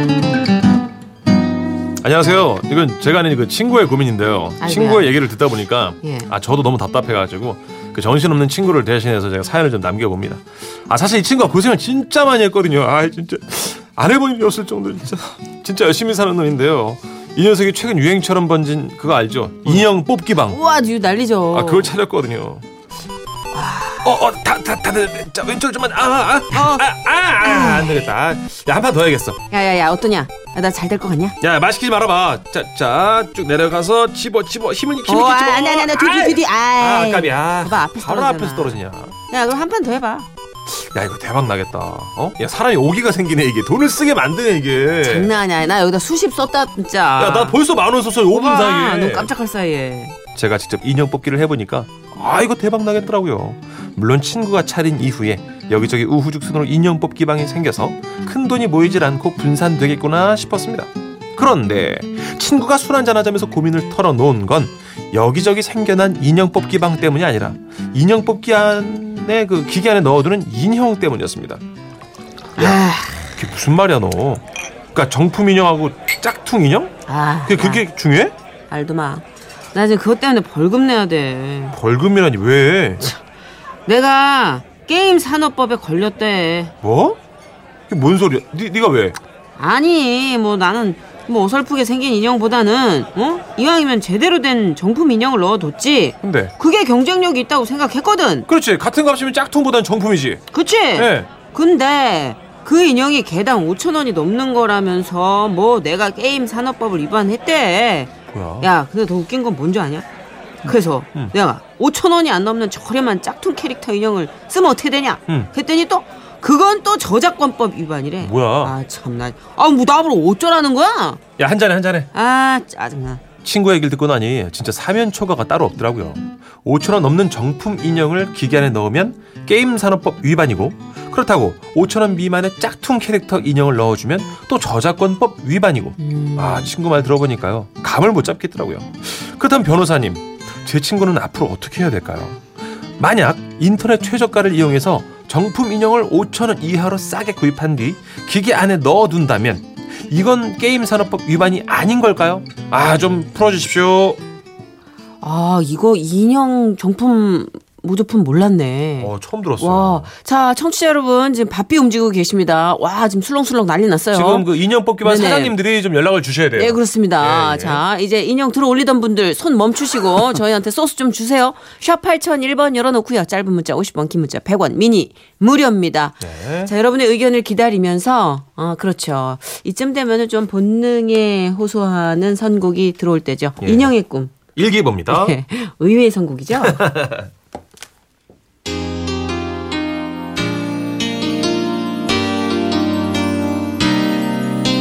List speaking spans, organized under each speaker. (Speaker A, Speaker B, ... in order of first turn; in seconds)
Speaker A: 2.0-20.6, 21.5-22.6, 24.0-29.4, 31.4-39.2, 40.7-45.3, 47.2-49.3, 50.4-71.6, 72.6-72.8, 73.4-78.3, 81.7-83.1, 86.8-87.2, 87.9-89.2, 96.2-96.5, 98.5-100.4, 101.0-101.3, 108.3-108.7, 118.2-118.8, 121.4-122.1, 123.4-142.4, 143.0-154.2, 159.0-160.1, 164.1-167.8, 176.2-176.7, 183.6-183.9, 184.5-185.3, 186.6-187.3
Speaker B: 4.6-5.2, 6.0-6.3, 20.5-21.9, 23.5-24.1, 26.5-26.8, 27.4-28.0, 29.5-31.4, 35.1-40.3, 45.0-47.6, 48.3-50.2, 72.6-73.3, 77.1-77.9, 78.7-81.8, 83.9-86.7, 89.6-98.5, 100.5-110.1, 110.6-121.2, 122.1-123.2, 136.0-136.7, 155.2-165.6, 166.5-184.4, 185.1-186.9